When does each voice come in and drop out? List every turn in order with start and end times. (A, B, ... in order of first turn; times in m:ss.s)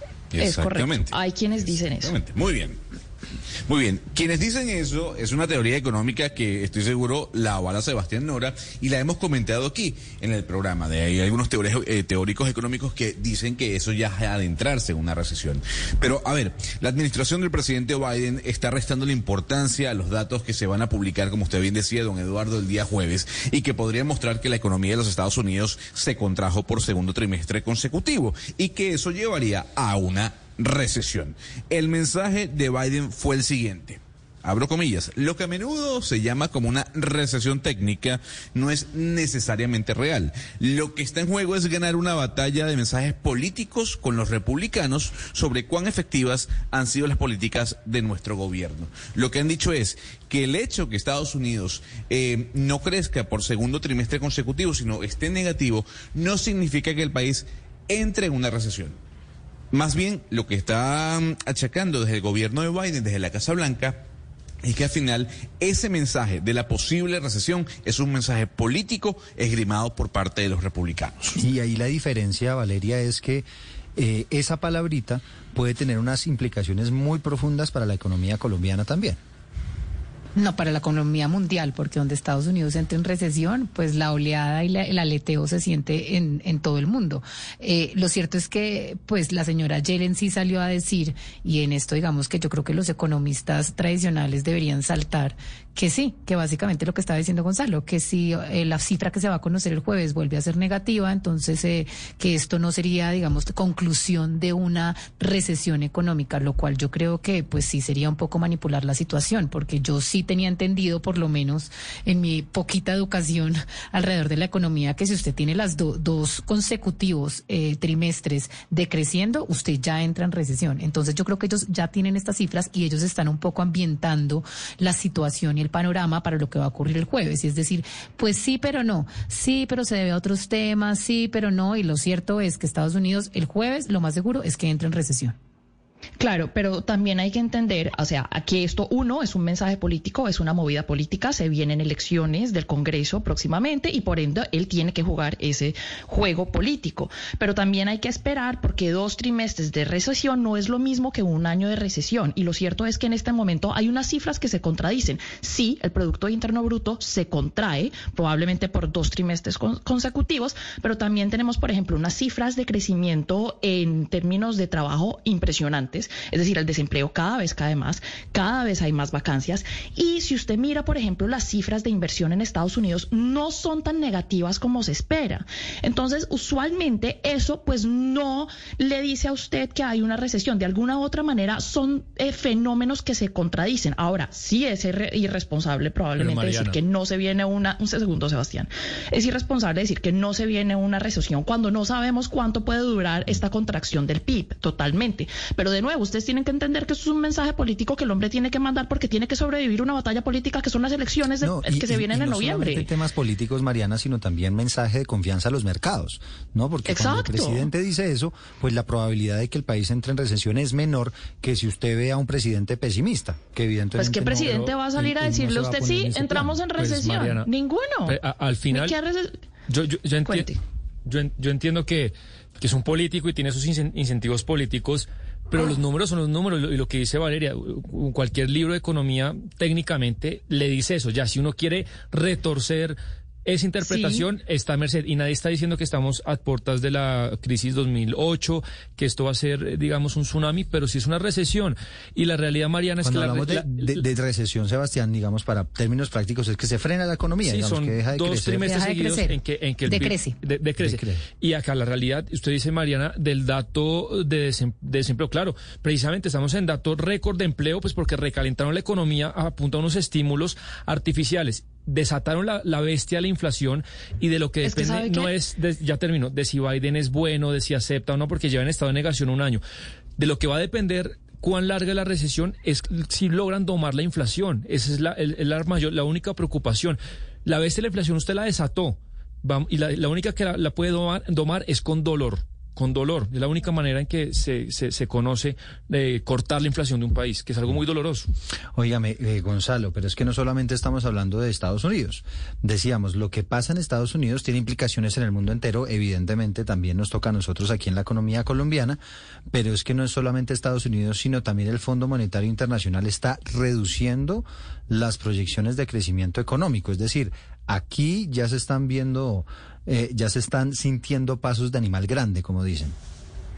0:00.3-0:02.8 A
0:00.4-0:02.1 B
0:03.7-0:59.0 A
0:59.7-1:04.0 A
1:04.6-1:11.4 A
1:11.4-1:19.2 C
1:20.4-2:15.4 D
2:16.2-3:22.9 B
3:06.2-3:06.8 E
3:21.4-3:36.6 C
3:26.9-3:27.7 B
3:34.0-3:38.2 B
3:34.4-3:34.7 E
3:36.8-3:37.5 E
3:38.1-3:39.0 E
3:38.7-3:39.3 B
3:39.7-3:40.5 E
3:40.3-3:40.6 B
3:41.0-4:04.1 E
3:53.8-3:54.2 B
4:03.0-4:08.7 C
4:07.4-4:29.6 E
4:08.6-4:10.4 D
4:10.8-4:11.2 C
4:24.6-4:25.3 B
4:30.2-4:48.3 E
4:48.8-4:59.0 C
4:59.5-5:13.0 C